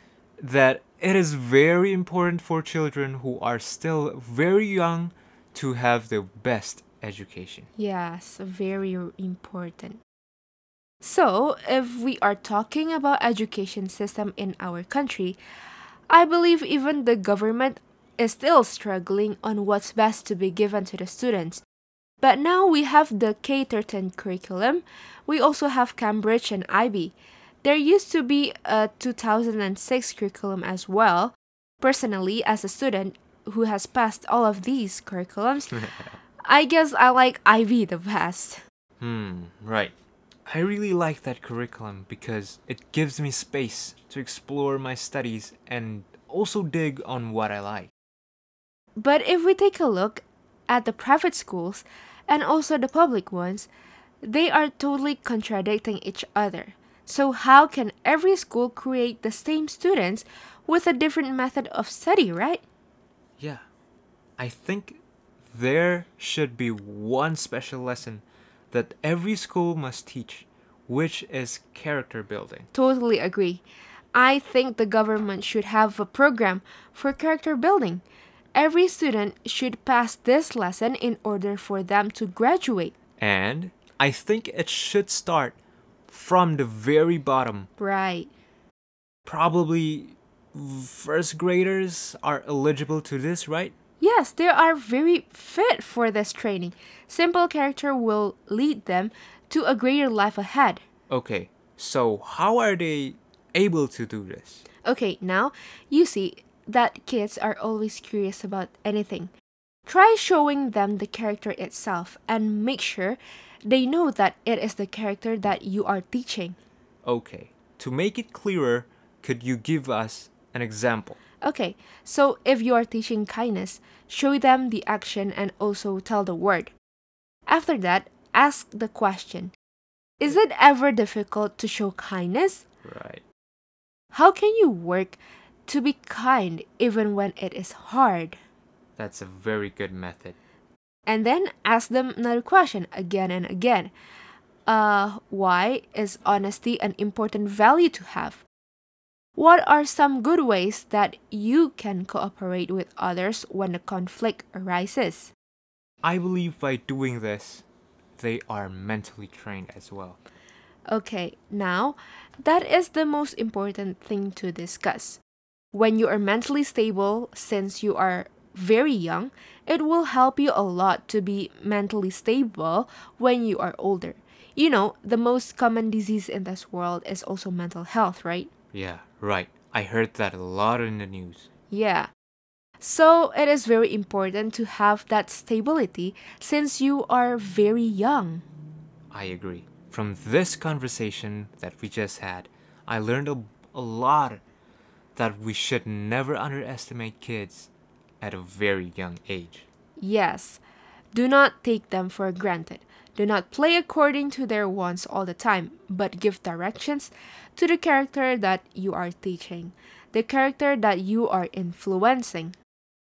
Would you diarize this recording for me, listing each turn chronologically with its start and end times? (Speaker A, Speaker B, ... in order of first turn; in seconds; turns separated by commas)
Speaker A: 0.4-7.7, Speaker B: 7.8-10.0, Speaker B: 11.0-15.4, Speaker B: 16.1-21.6, Speaker B: 22.2-35.9, Speaker A: 35.7-36.2, Speaker B: 36.4-38.6, Speaker A: 39.0-39.9, Speaker A: 40.5-47.9, Speaker B: 49.0-53.7, Speaker B: 54.2-62.6, Speaker A: 64.4-72.7, Speaker B: 72.7-82.9, Speaker A: 83.2-85.6, Speaker A: 86.1-87.7, Speaker B: 87.8-88.3, Speaker A: 89.3-93.7, Speaker B: 94.0-100.8, Speaker A: 101.1-104.6, Speaker B: 104.8-109.3, Speaker B: 109.9-116.6, Speaker A: 117.0-121.2, Speaker B: 121.4-126.7, Speaker B: 127.5-129.5, Speaker B: 130.2-132.6, Speaker A: 132.8-133.2, Speaker B: 134.1-138.4, Speaker A: 139.0-140.4, Speaker B: 141.1-143.9, Speaker B: 144.7-148.4, Speaker B: 149.4-155.3, Speaker A: 156.0-157.7, Speaker A: 158.2-160.2, Speaker B: 160.9-165.2, Speaker B: 165.7-178.5, Speaker A: 178.7-181.5, Speaker B: 181.7-182.1, Speaker B: 182.8-188.5, Speaker A: 189.1-194.4, Speaker A: 195.2-197.7, Speaker A: 198.2-199.7, Speaker B: 200.0-200.6, Speaker B: 201.1-212.6